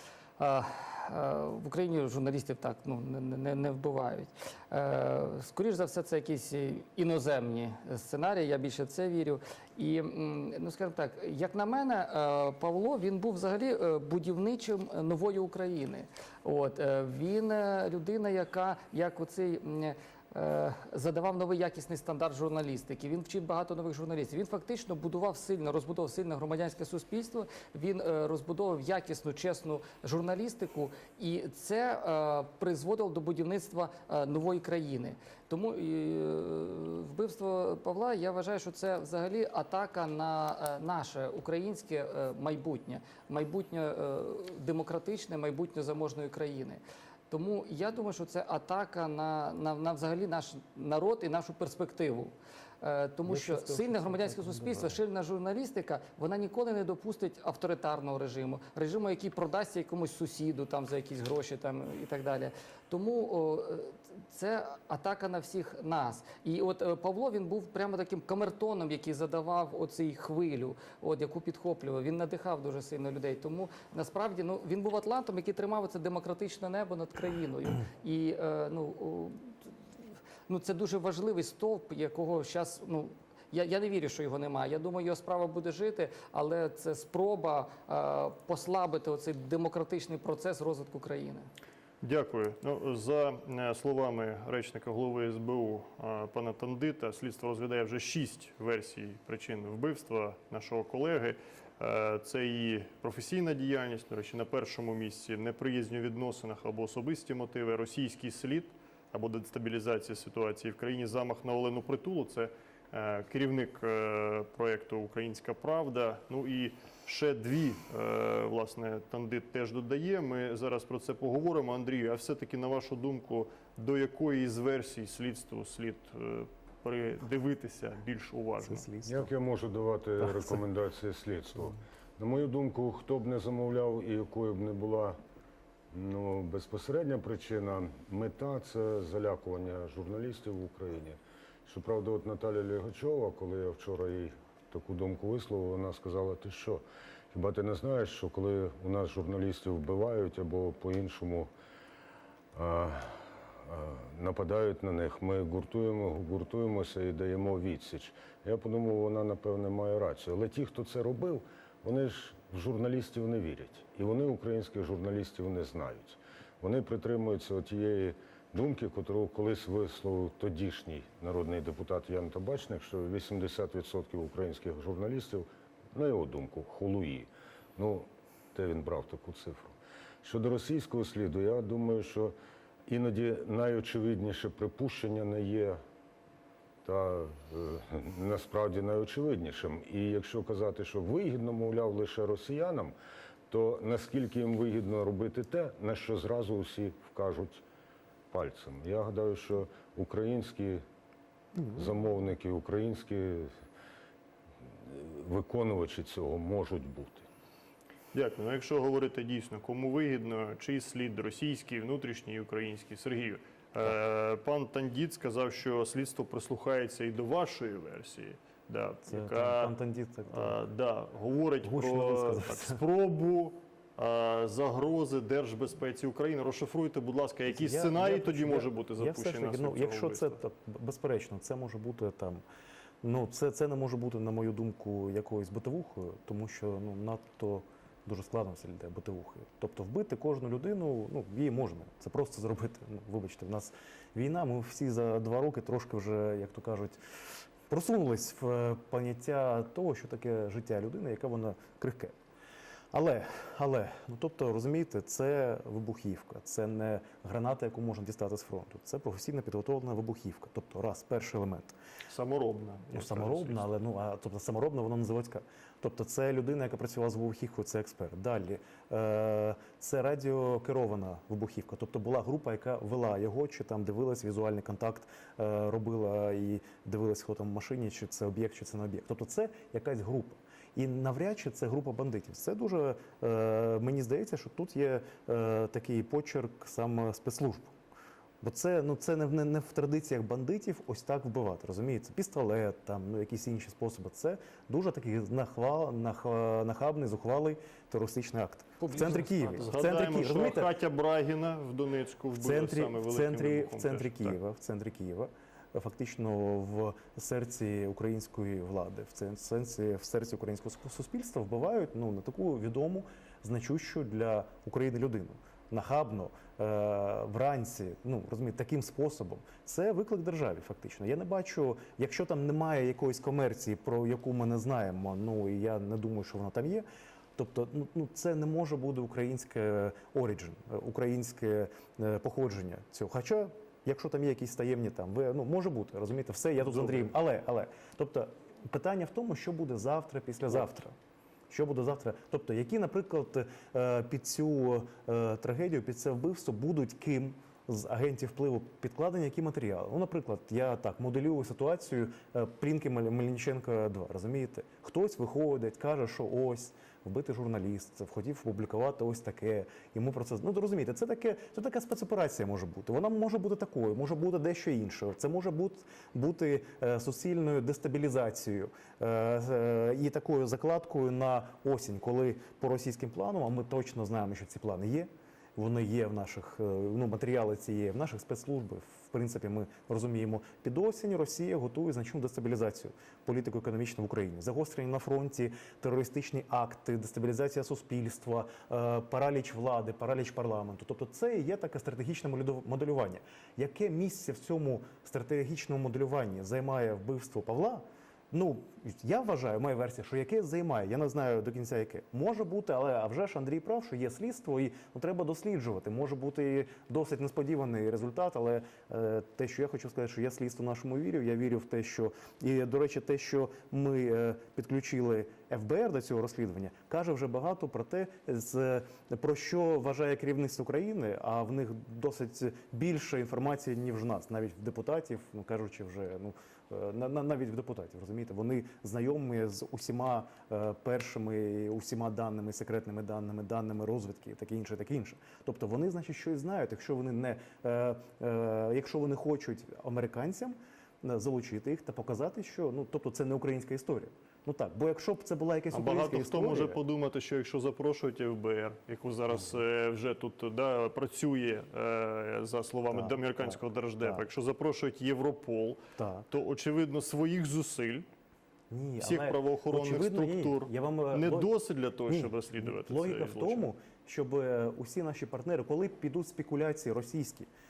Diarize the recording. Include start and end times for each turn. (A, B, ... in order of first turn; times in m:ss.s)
0:00.4-1:19.6 A
0:53.3-0:55.0 B
1:20.5-1:31.5 A
1:32.0-2:08.9 C
2:08.6-2:09.3 B
2:09.1-2:15.2 D
2:10.2-2:10.6 B
2:15.9-2:31.5 D
2:32.5-3:02.4 D
3:02.9-3:05.8 D
3:06.8-3:12.9 D
3:13.5-3:17.6 D
3:18.3-3:20.8 D
3:21.6-3:21.8 B
3:21.7-3:23.5 D
3:24.8-3:27.3 D
3:28.1-3:39.8 C
3:39.1-3:40.6 B
3:40.3-3:50.4 C
3:41.6-3:42.8 B
3:47.5-3:52.4 B
3:53.0-4:12.2 B
4:12.9-4:21.8 B
4:22.1-4:23.7 C
4:22.9-4:47.7 B
4:48.4-5:00.7 B
4:58.8-4:59.7 A
4:59.6-5:04.4 C
5:02.3-5:26.8 B
5:27.4-5:40.9 B
5:36.6-5:37.1 C
5:41.5-7:26.8 B
7:25.7-7:35.8 C
7:32.9-7:34.2 B
7:36.0-7:36.3 B
7:36.3-7:38.1 C
7:38.7-7:41.5 B
7:39.0-7:43.7 C
7:42.1-7:47.5 B